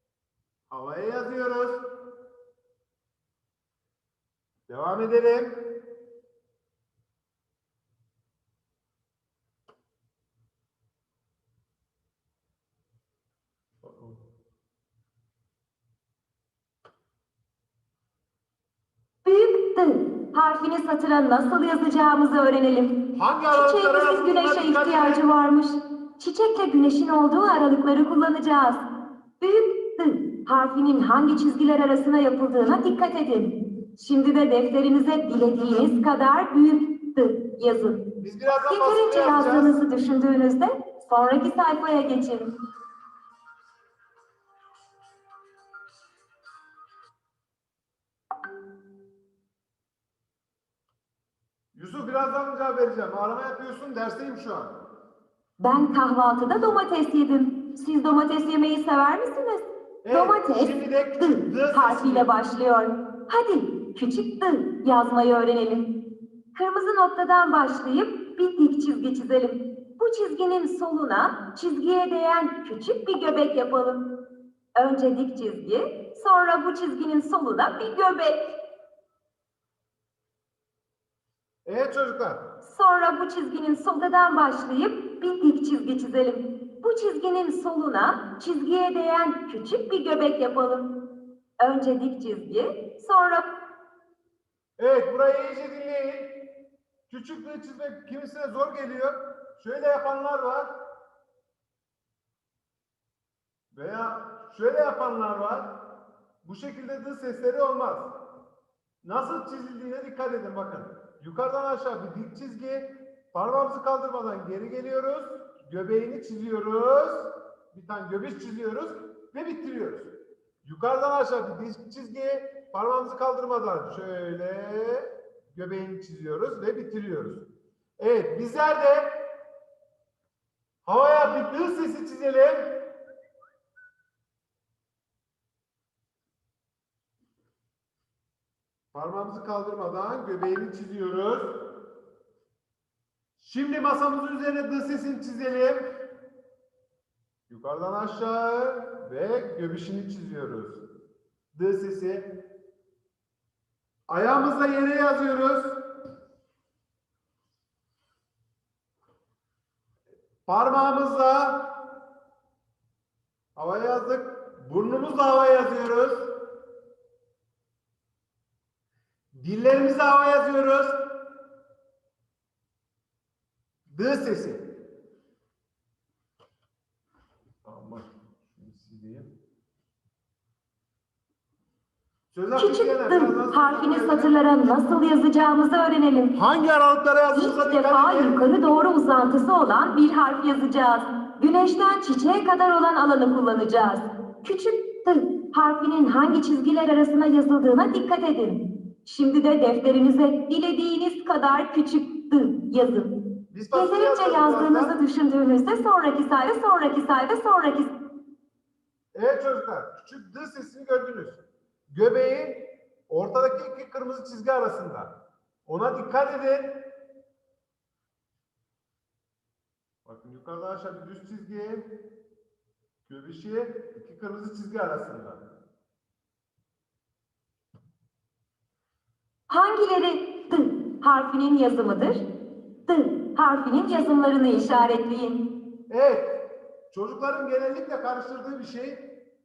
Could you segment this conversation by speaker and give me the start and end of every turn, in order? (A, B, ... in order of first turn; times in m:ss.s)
0:00.7-0:01.8 A
0:04.7-0:05.7 A
0:13.8-0:14.2 A
0:19.2-0:28.8 B
0:23.2-0:25.2 A
0:29.4-0:38.0 B
0:38.2-0:39.8 A
0:38.6-0:42.5 B
0:51.7-0:54.8 A
0:55.6-1:05.9 B
1:00.0-1:02.3 A
1:06.5-1:14.1 B
1:14.8-1:18.5 B
1:21.6-1:22.4 A
1:22.6-1:31.0 B
1:31.6-1:33.4 B
1:34.8-1:36.4 A
1:37.1-1:40.8 A
1:43.7-1:45.8 A
1:46.4-1:48.1 A
1:49.0-2:07.4 A
2:08.0-2:09.2 A
2:10.8-2:12.8 A
2:18.9-2:21.6 A
2:23.4-2:26.0 A
2:27.5-2:30.8 A
2:31.5-2:32.4 A
2:34.1-2:35.8 A
2:40.4-2:41.7 A
2:43.5-2:46.4 A
2:49.3-2:51.0 A
2:53.9-2:54.7 A
2:57.6-2:59.3 A
3:02.3-3:04.4 A
3:02.6-3:06.3 B
3:06.3-3:08.4 A
3:07.3-3:23.1 B
3:23.5-3:24.9 A
3:23.7-3:27.9 B
3:29.1-3:36.8 A
3:40.0-3:41.9 A
3:43.1-3:45.4 A
3:49.5-3:52.2 B
3:52.8-3:55.4 B
3:55.9-3:59.2 A